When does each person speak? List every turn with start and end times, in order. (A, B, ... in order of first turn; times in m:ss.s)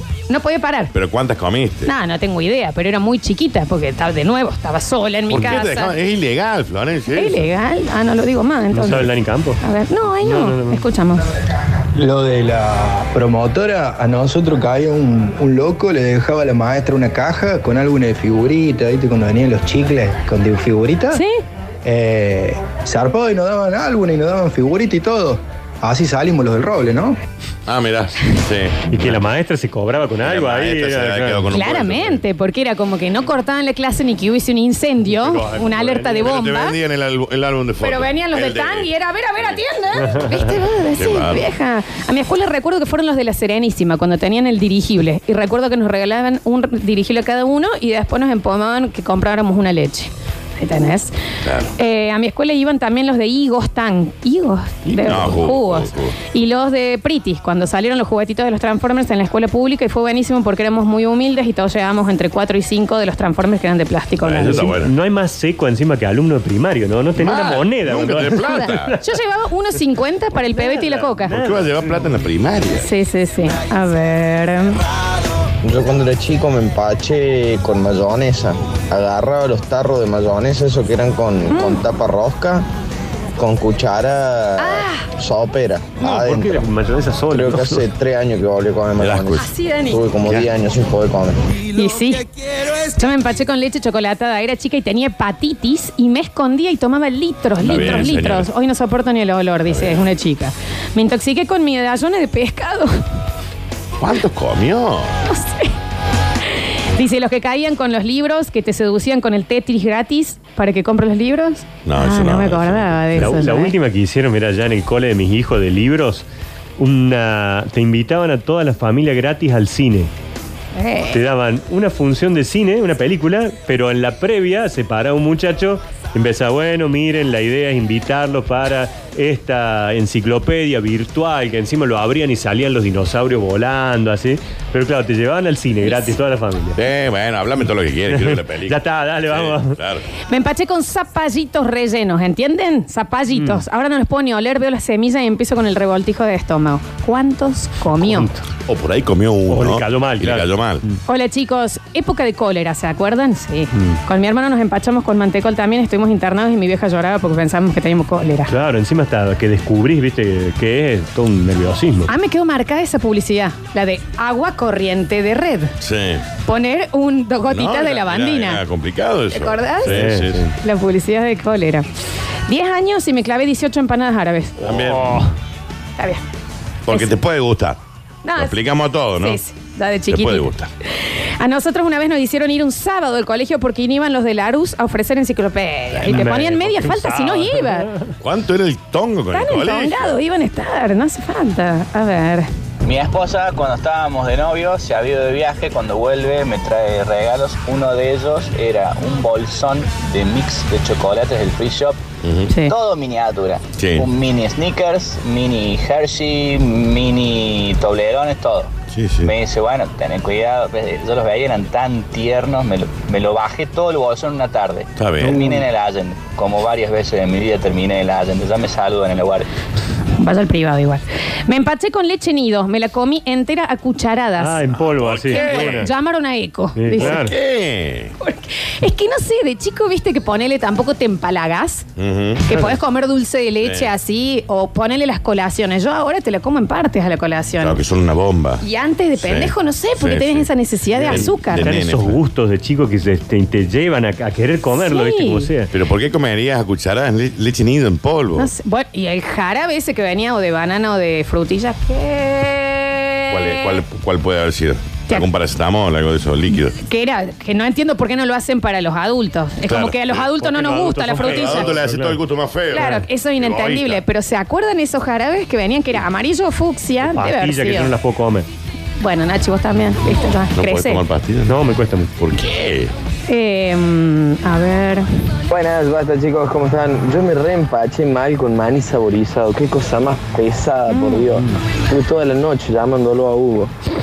0:00.3-0:00.9 A
0:00.9-0:01.9 B
0:01.9-0:06.0 A
0:05.3-0:07.4 B
0:07.1-0:09.1 A
0:08.7-0:09.6 C
0:09.6-0:11.3 A
0:10.2-0:10.8 C
0:12.0-0:21.2 D
0:21.1-0:21.4 A
0:21.8-0:27.2 D
0:27.7-0:29.2 B
0:28.9-0:31.5 C
0:30.2-0:32.2 B
0:31.5-0:36.8 A
0:35.1-0:36.3 C
0:36.2-0:39.6 B
0:37.8-0:51.1 A
0:41.0-0:41.5 B
0:51.4-0:51.7 B
0:51.8-1:04.7 A
0:54.9-0:56.2 B
1:04.2-1:04.9 B
1:04.5-1:09.0 C
1:07.2-1:09.0 B
1:08.4-1:11.4 A
1:10.4-1:12.1 C
1:11.3-1:12.9 B
1:12.8-1:14.8 A
1:15.6-1:22.7 E
1:21.5-1:21.8 A
1:23.4-1:26.7 E
1:24.6-1:25.1 A
1:26.0-1:27.9 C
1:27.3-1:31.4 E
1:29.0-1:29.5 B
1:29.4-1:30.0 A
1:31.7-1:43.0 A
1:37.6-1:38.5 B
1:39.7-1:40.0 B
1:44.0-1:45.1 B
1:45.3-1:45.7 A
1:46.5-1:53.7 A
1:51.8-1:53.4 B
1:53.2-1:56.2 C
1:56.8-2:00.1 C
2:00.8-2:01.2 A
2:01.1-2:16.8 C
2:15.9-2:16.1 A
2:16.8-2:20.0 B
2:18.1-2:19.8 C
2:20.3-2:28.3 A
2:23.3-2:23.6 C
2:28.0-2:28.4 C
2:28.7-2:30.8 B
2:29.5-2:30.9 C
2:31.1-2:38.5 A
2:38.5-2:42.1 C
2:42.1-2:45.7 A
2:45.8-2:46.2 B
2:46.5-2:48.6 A
2:47.5-2:50.5 B
2:49.3-2:51.9 A
2:49.9-2:50.5 C
2:52.5-2:54.6 A
2:54.6-2:55.2 B
2:54.8-2:55.3 C
2:56.9-2:57.8 B
2:58.2-2:58.6 A
2:58.4-2:59.4 B
2:59.2-3:00.5 A
3:00.1-3:00.7 B
3:01.4-3:07.9 A
3:06.1-3:08.2 C
3:08.2-3:10.2 B
3:09.3-3:12.5 A
3:12.8-3:22.0 F
3:22.2-3:22.5 B
3:22.7-3:39.5 F
3:23.8-3:24.1 B
3:28.9-3:29.3 B
3:35.0-3:35.4 B
3:40.2-3:44.7 A
3:44.4-3:45.9 C
3:44.8-3:45.9 B
3:45.3-3:47.3 A
3:46.8-3:47.3 C
3:47.0-3:48.1 B
3:48.2-3:51.9 A
3:52.0-3:52.7 B
3:52.5-3:57.8 A
3:53.6-3:53.9 B
3:57.6-3:58.6 B
3:58.6-4:01.7 A
3:59.2-4:02.2 B
4:01.0-4:05.7 C
4:04.8-4:05.5 A
4:05.7-4:08.5 B
4:08.4-4:13.8 A
4:13.3-4:16.8 B
4:16.7-4:21.8 A
4:19.7-4:20.3 B
4:20.4-4:22.2 C
4:21.2-4:24.0 B
4:22.7-4:27.9 A
4:27.0-4:28.5 C
4:29.0-4:31.0 A
4:30.6-4:31.6 B
4:31.5-4:32.1 C
4:32.2-4:32.9 B
4:33.3-4:35.0 A
4:35.6-4:35.8 E
4:35.7-4:41.3 G
4:40.9-4:41.4 A
4:42.0-4:43.6 E
4:42.1-4:43.4 G